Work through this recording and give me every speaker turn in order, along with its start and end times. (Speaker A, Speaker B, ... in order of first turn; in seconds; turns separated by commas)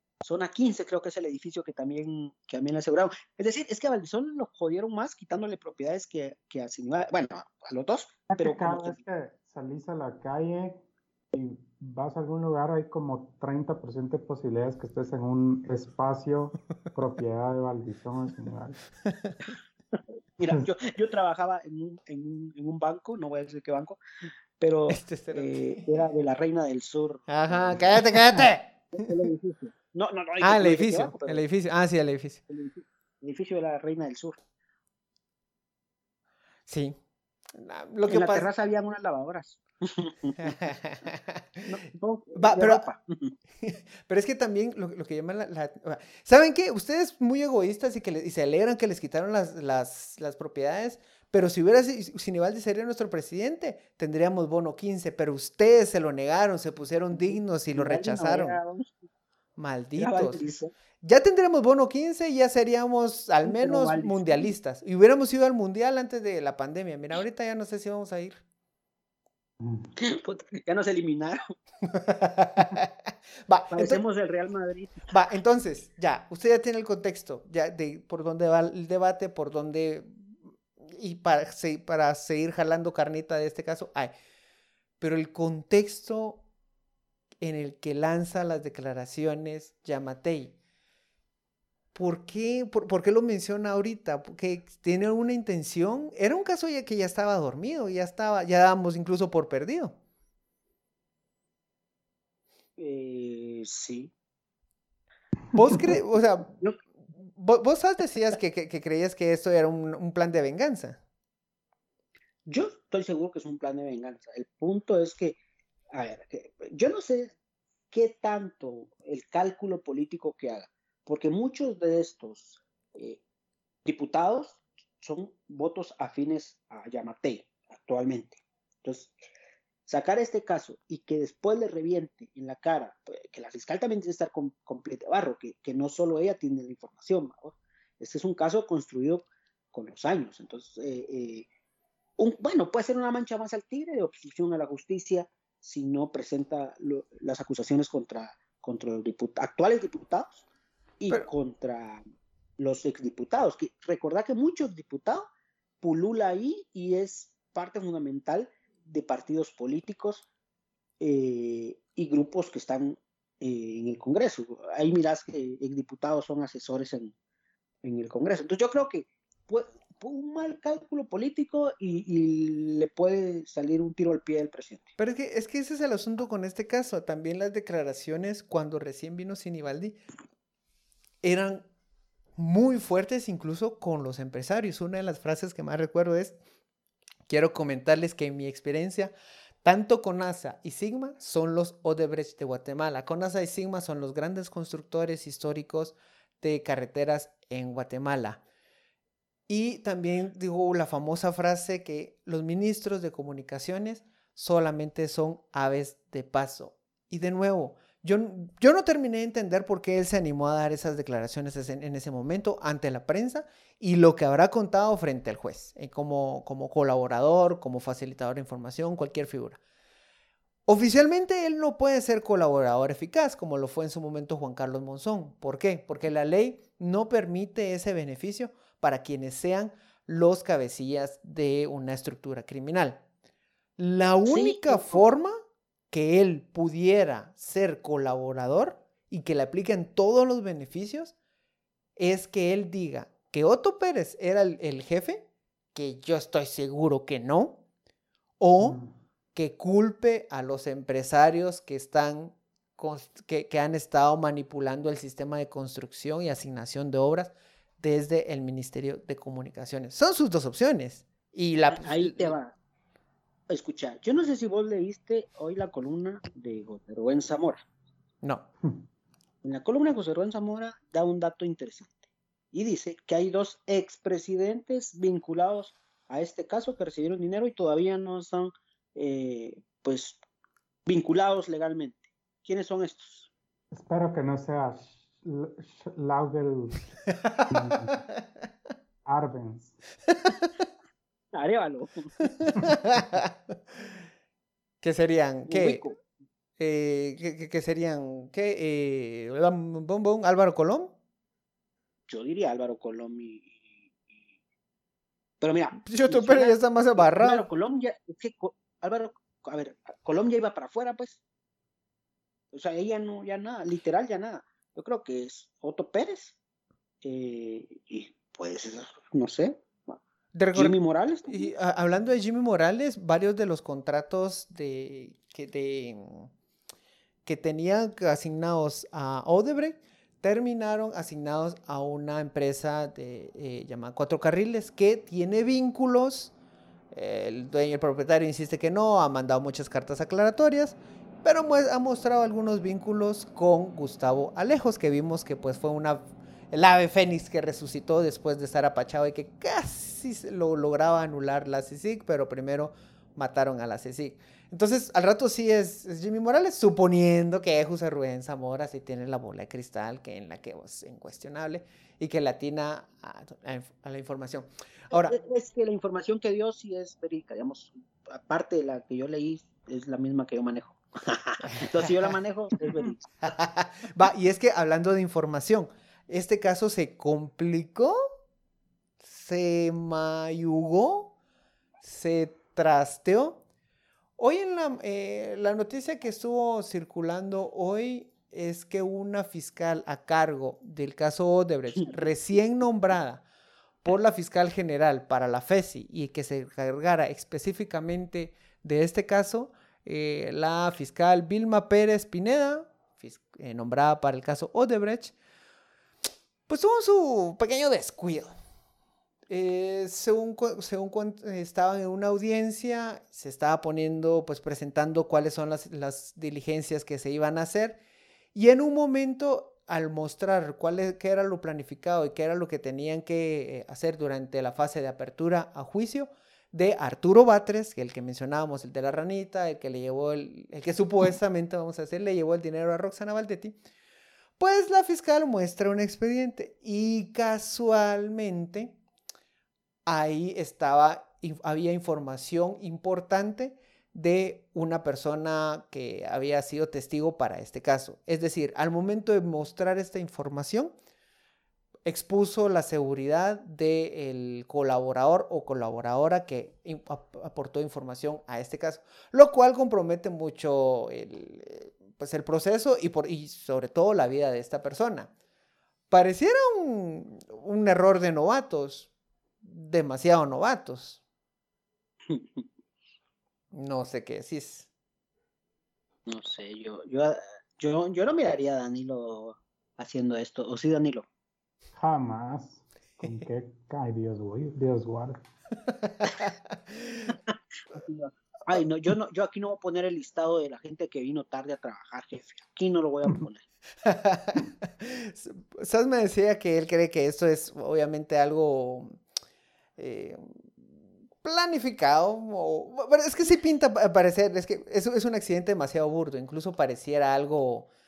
Speaker A: 0.2-9.0, Speaker B: 8.3-10.8, Speaker B: 11.3-18.8, Speaker A: 20.0-24.0, Speaker A: 24.6-28.0, Speaker C: 24.9-25.9, Speaker C: 27.3-28.7, Speaker A: 28.9-31.4, Speaker C: 30.4-32.5, Speaker A: 32.5-34.4, Speaker C: 36.7-37.0, Speaker C: 37.5-38.5, Speaker A: 38.1-40.6, Speaker C: 40.4-41.7, Speaker A: 41.6-43.4, Speaker C: 42.4-42.8, Speaker C: 43.6-58.6, Speaker A: 57.2-59.0, Speaker C: 59.6-60.4, Speaker A: 60.0-60.7, Speaker C: 61.0-68.4, Speaker A: 63.4-64.5, Speaker B: 69.6-69.9, Speaker A: 70.0-71.5, Speaker C: 71.9-72.9, Speaker C: 73.5-74.0, Speaker A: 73.7-75.1, Speaker C: 75.1-80.3, Speaker C: 80.9-84.1, Speaker C: 85.0-86.4, Speaker C: 87.4-90.6, Speaker C: 91.9-100.0, Speaker A: 102.8-104.1, Speaker B: 105.5-105.9, Speaker C: 105.5-106.6, Speaker C: 107.2-111.0, Speaker A: 112.5-115.4, Speaker A: 115.9-117.3, Speaker A: 117.9-123.2, Speaker A: 123.8-129.2, Speaker A: 129.9-141.5, Speaker A: 142.2-150.4, Speaker A: 151.0-152.0, Speaker A: 152.6-155.3, Speaker A: 155.8-160.3, Speaker A: 161.0-167.1, Speaker A: 167.8-174.9, Speaker C: 175.0-180.0, Speaker C: 181.2-181.7, Speaker C: 182.4-186.4, Speaker C: 187.3-189.1, Speaker C: 189.6-198.4, Speaker C: 199.5-219.6, Speaker C: 220.7-233.0, Speaker C: 233.8-235.3, Speaker A: 234.3-235.0, Speaker C: 235.9-241.2, Speaker C: 242.0-247.6, Speaker C: 248.4-248.8, Speaker B: 248.6-248.9, Speaker C: 249.3-262.4, Speaker A: 261.7-262.6, Speaker A: 263.5-267.6, Speaker C: 268.2-268.5, Speaker A: 269.4-271.9, Speaker A: 272.5-280.2, Speaker A: 280.9-283.3, Speaker B: 283.7-286.8, Speaker C: 287.2-288.0, Speaker B: 287.5-288.0, Speaker B: 289.1-289.8, Speaker A: 291.3-292.1, Speaker C: 292.3-293.3, Speaker C: 294.8-295.8, Speaker A: 295.5-296.0, Speaker C: 296.6-300.9, Speaker A: 302.1-304.4, Speaker A: 305.4-311.2, Speaker C: 305.9-307.5, Speaker A: 312.5-316.4, Speaker A: 317.0-320.0, Speaker C: 320.3-320.8, Speaker A: 320.6-321.5, Speaker C: 321.3-326.3, Speaker C: 327.3-336.4, Speaker C: 336.9-365.2, Speaker A: 364.9-373.0, Speaker C: 371.6-372.0, Speaker C: 373.2-378.0, Speaker C: 379.0-381.1, Speaker C: 381.8-383.4, Speaker C: 384.2-393.2, Speaker A: 391.8-392.1, Speaker C: 393.8-405.1, Speaker C: 406.5-408.3, Speaker C: 409.3-417.8, Speaker C: 418.3-433.6, Speaker C: 434.4-438.8, Speaker C: 439.9-450.7, Speaker C: 451.9-465.1, Speaker C: 465.9-468.9, Speaker C: 469.4-471.0, Speaker A: 472.1-472.5, Speaker C: 473.5-474.7, Speaker A: 476.1-481.1, Speaker B: 481.7-485.2, Speaker C: 485.9-487.1, Speaker A: 487.1-493.5, Speaker C: 493.9-499.0, Speaker C: 499.8-500.7, Speaker C: 501.2-507.7